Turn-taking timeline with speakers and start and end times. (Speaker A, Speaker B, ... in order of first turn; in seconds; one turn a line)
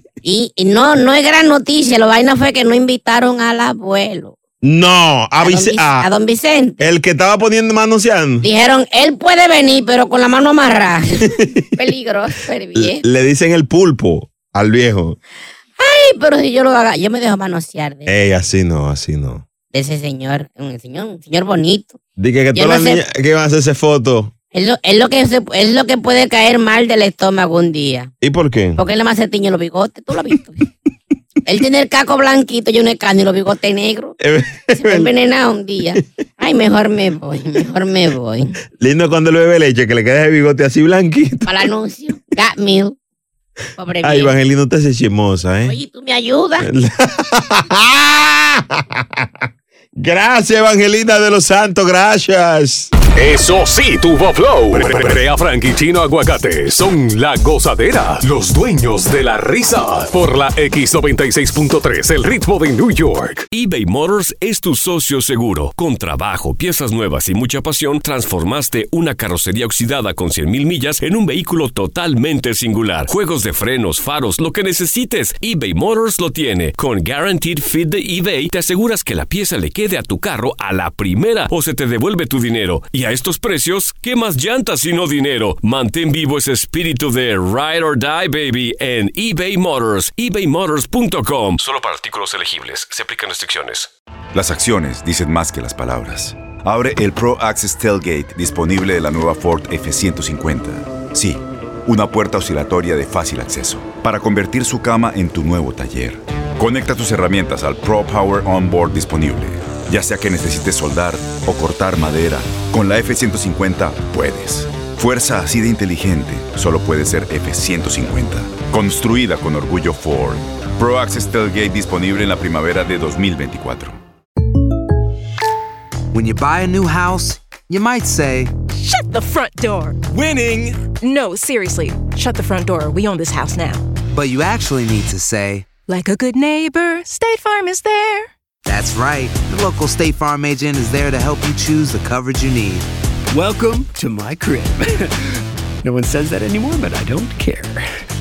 Speaker A: 0.2-4.4
Speaker B: 4.6-6.1
Speaker A: 5.4-6.8
Speaker B: 6.8-8.5
Speaker A: 8.4-13.0
Speaker B: 11.4-11.8
Speaker B: 12.8-15.2
Speaker A: 15.8-18.1
Speaker B: 18.1-19.5
Speaker A: 19.7-22.0
Speaker B: 22.2-24.3
Speaker A: 22.6-23.0
Speaker A: 24.5-28.1
Speaker B: 28.2-28.8
Speaker A: 28.8-30.6
Speaker A: 31.5-34.2
Speaker B: 34.2-35.1
Speaker A: 34.7-38.5
Speaker B: 38.7-41.7
Speaker A: 41.5-43.0
Speaker A: 43.8-44.3
Speaker B: 44.0-45.8
Speaker A: 45.6-46.7
Speaker B: 46.6-49.4
Speaker B: 50.0-52.9
Speaker C: 53.1-63.5
Speaker D: 63.5-93.9
Speaker E: 94.3-124.0
Speaker F: 126.1-128.5
Speaker G: 128.7-133.8
Speaker F: 134.1-135.7
Speaker G: 135.9-138.3
Speaker F: 138.7-142.9
Speaker H: 143.3-147.9